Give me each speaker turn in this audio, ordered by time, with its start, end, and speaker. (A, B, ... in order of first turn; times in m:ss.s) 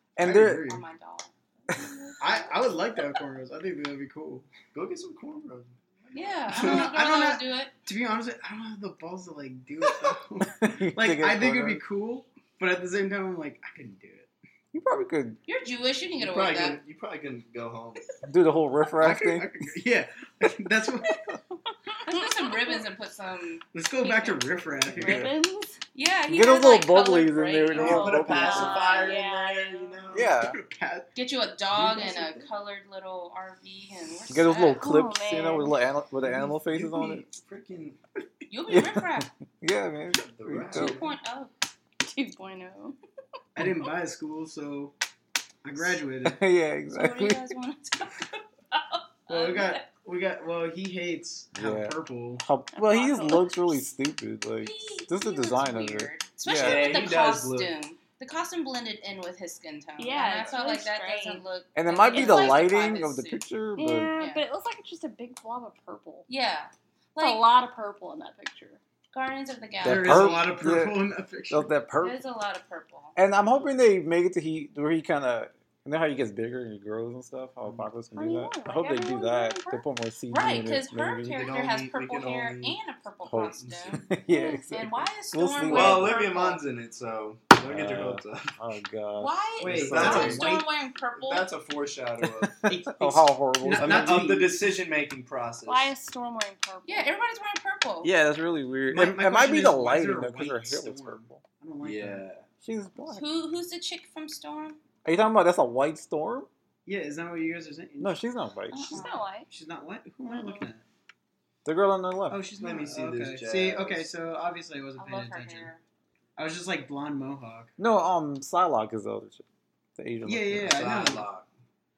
0:00.2-0:00.8 A
0:00.2-0:00.8 B
0:00.5-0:02.6 C
0:02.2-0:04.5 B
0:04.7-0:06.9 D
0:06.1-0:07.7 C
0:06.5-0:14.3 B
0:10.6-0:11.8 A
0:14.7-0:15.4 A
0:15.4-0:16.8 C
0:16.2-0:18.1 D
0:18.2-0:19.7 A
0:19.0-0:21.2 B
0:21.1-0:22.8 E
0:22.0-0:24.7 C
0:23.7-0:25.3 B
0:25.0-0:25.3 A
0:25.0-0:25.8 E
0:25.9-0:29.2 C
0:26.3-0:28.8 A
0:27.7-0:30.3 D
0:28.3-0:30.1 E
0:30.1-0:30.6 A
0:30.2-0:31.1 B
0:31.1-0:34.8 C
0:31.7-0:32.5 D
0:34.3-0:37.2 A
0:34.7-0:35.8 E
0:36.2-0:38.0 D
0:38.5-0:39.3 C
0:38.7-0:41.0 A
0:40.2-0:41.2 D
0:40.7-0:41.5 C
0:42.0-0:43.0 E
0:43.5-0:44.9 B
0:45.6-0:46.4 B
0:46.2-0:47.5 A
0:46.9-0:49.9 C
0:49.3-0:52.4 B
0:51.5-0:57.1 A
0:52.7-0:53.8 E
0:54.6-1:03.4 C
0:56.5-0:57.7 D
1:00.0-1:01.4 E
1:01.7-1:04.1 A
1:02.1-1:02.7 E
1:03.8-1:06.3 E
1:04.2-1:04.4 C
1:06.3-1:07.5 C
1:07.2-1:08.8 E
1:09.1-1:10.5 C
1:09.8-1:11.7 B
1:09.8-1:12.2 A
1:12.0-1:13.2 C
1:13.2-1:21.4 A
1:18.1-1:19.8 E
1:20.3-1:24.0 C
1:21.3-1:22.8 D
1:23.2-1:26.2 A
1:23.6-1:24.0 D
1:24.3-1:24.6 E
1:24.7-1:26.6 C
1:25.6-1:28.5 D
1:27.6-1:30.6 A
1:29.2-1:31.5 C
1:29.6-1:30.6 B
1:29.9-1:30.6 D
1:31.2-1:32.5 D
1:32.2-1:34.5 A
1:32.6-1:34.6 B
1:33.7-1:35.9 D
1:35.6-1:37.2 E
1:36.8-1:38.1 C
1:38.0-1:41.4 A
1:38.9-1:42.2 B
1:41.8-1:42.4 D
1:42.6-1:43.2 A
1:43.1-1:44.8 C
1:45.0-1:46.5 A
1:46.8-1:48.2 B
1:48.0-1:49.1 A
1:48.7-1:49.2 C
1:48.9-1:49.5 E
1:49.5-1:50.8 B
1:50.3-1:50.6 E
1:51.6-1:52.4 A
1:52.3-1:55.7 B
1:52.6-1:54.1 D
1:55.0-1:55.8 C
1:56.4-1:57.7 B
1:57.8-1:59.4 A
2:00.0-2:00.8 A
2:00.2-2:01.3 B
2:00.6-2:01.5 D